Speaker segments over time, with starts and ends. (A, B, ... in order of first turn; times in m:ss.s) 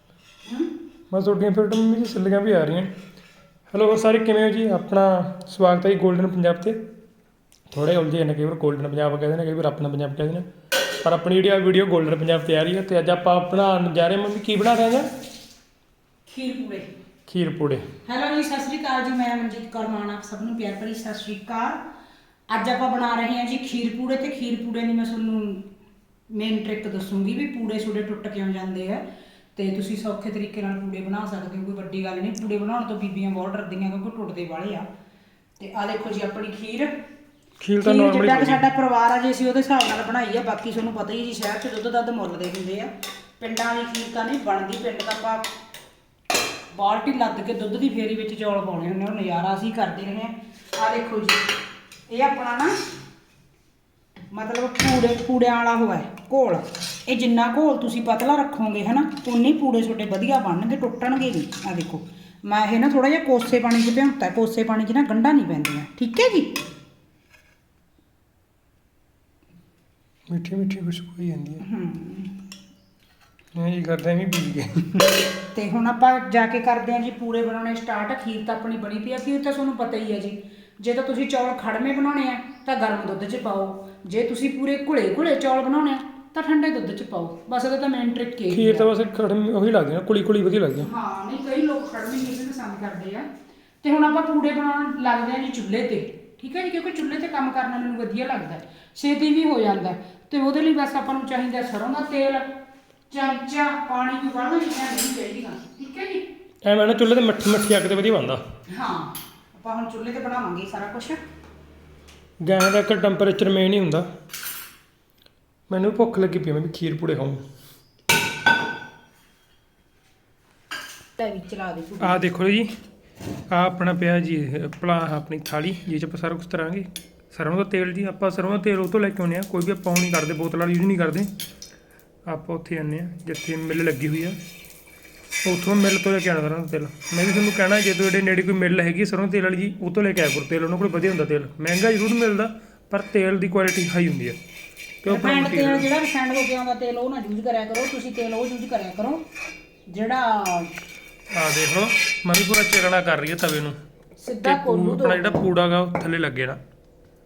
0:01.1-0:02.9 A
0:03.7-0:06.8 A
0:07.7-0:15.0 A
0:16.3-0:16.9 B
0:17.3-0:17.9 A
0:18.0-0:21.8 B
0:22.5-0:25.7 B
0:26.3-0:29.0 B
0:29.6-0:34.9 B
0:35.6-0:36.9 B
0:37.6-0:38.6 A
0:37.8-0:45.5 B
0:46.7-0:51.4 B
0:52.1-0:52.7 B
0:54.3-1:06.6 B
1:10.3-1:11.6 A
1:11.6-1:12.4 B
1:13.5-1:15.1 A
1:15.5-1:28.9 B
1:28.5-1:30.9 A
1:30.8-1:33.2 B
1:33.8-1:42.5 B
1:43.1-1:46.2 B
1:46.6-1:48.4 A
1:48.7-1:51.2 B
1:52.4-1:54.1 A
1:55.7-1:57.4 A
2:01.2-2:02.2 B
2:02.0-2:02.7 A
2:03.5-2:11.3 A
2:12.3-2:14.4 A
2:15.4-2:24.4 A
2:25.0-2:25.9 A
2:25.1-2:29.2 B
2:29.9-2:30.7 B
2:31.3-2:33.8 A
2:34.2-2:35.4 B
2:34.4-2:36.6 A